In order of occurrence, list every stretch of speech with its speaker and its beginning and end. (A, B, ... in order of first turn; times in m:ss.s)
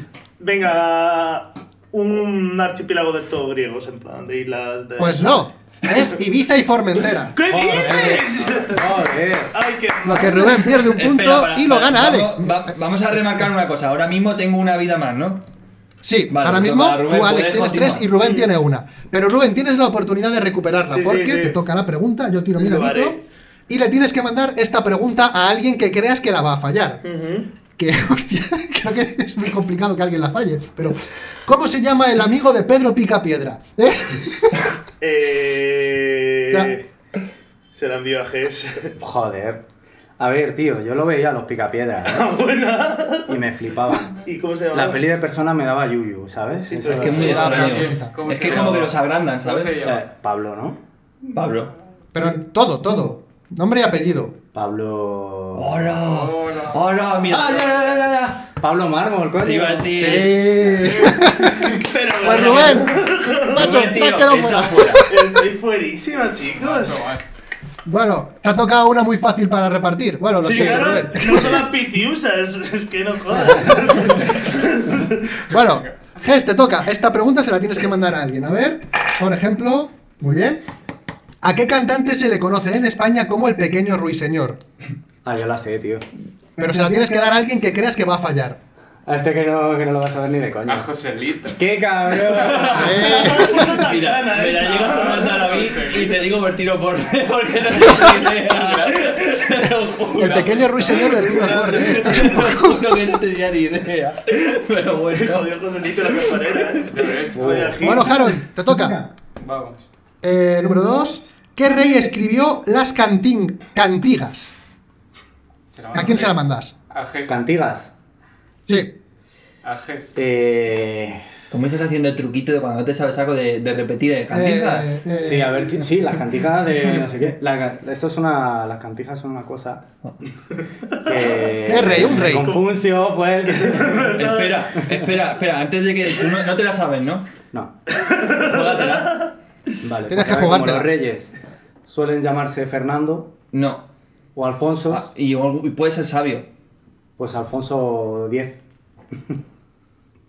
0:00.4-0:06.0 A
0:05.0-0:08.2 B
0:07.3-0:10.8 A
0:07.5-0:09.6 C
0:10.0-0:12.7 B
0:10.9-0:15.4 D
0:16.0-0:23.2 B
0:16.3-0:18.1 D
0:18.2-0:18.5 A
0:20.9-0:21.6 A
0:22.6-0:23.2 A
0:23.7-0:27.0 B
0:27.0-0:27.5 A
0:27.8-0:34.6 B
0:35.0-0:36.9 A
0:37.7-0:38.9 A
0:39.0-0:39.6 C
0:40.2-0:42.3 C
0:42.0-0:43.4 A
0:43.3-0:47.6 C
0:44.2-0:45.0 A
0:46.6-0:47.6 A
0:46.9-0:49.7 D
0:47.1-0:48.2 B
0:47.2-0:50.1 E
0:49.8-0:50.8 C
0:51.3-0:51.7 D
0:52.1-0:54.4 B
0:54.5-0:55.8 C
0:55.6-0:57.7 D
0:56.0-0:56.8 E
0:57.3-1:00.3 C
0:59.4-1:00.4 D
0:59.9-1:02.9 B
1:00.9-1:01.7 E
1:01.7-1:03.8 A
1:02.2-1:02.9 D
1:03.5-1:05.1 D
1:03.5-1:05.3 B
1:05.1-1:07.1 A
1:06.5-1:07.2 E
1:07.8-1:11.7 B
1:10.4-1:15.4 A
1:13.3-1:13.8 B
1:15.5-1:20.6 B
1:21.4-1:24.6 B
1:25.2-1:26.0 C
1:26.6-1:28.6 B
1:29.1-1:30.9 C
1:30.7-1:31.6 E
1:31.6-1:33.1 C
1:32.7-1:33.7 B
1:32.8-1:35.9 A
1:33.6-1:46.7 D
1:34.9-1:36.3 E
1:37.7-1:41.2 E
1:40.2-1:43.0 B
1:41.0-1:42.5 A
1:45.1-1:48.2 A
1:46.9-1:47.8 E
1:47.4-1:48.0 C
1:47.8-1:49.0 B
1:49.4-1:49.9 E
1:50.2-1:54.5 B
1:55.7-1:57.5 E
1:55.9-1:56.7 B
1:57.3-1:57.9 C
1:58.7-1:58.9 B
1:59.6-2:00.1 E
2:00.2-2:01.2 C
2:01.5-2:04.9 D
2:04.3-2:05.5 B
2:05.2-2:09.8 C
2:11.0-2:14.3 C
2:11.4-2:12.6 A
2:11.7-2:12.5 B
2:13.6-2:14.7 A
2:14.2-2:17.2 D
2:17.9-2:19.2 A
2:18.3-2:19.3 D
2:19.8-2:21.3 C
2:20.1-2:20.9 B
2:21.8-2:23.3 C
2:23.5-2:23.9 D
2:24.4-2:25.1 C
2:24.9-2:26.5 D
2:27.2-2:28.6 C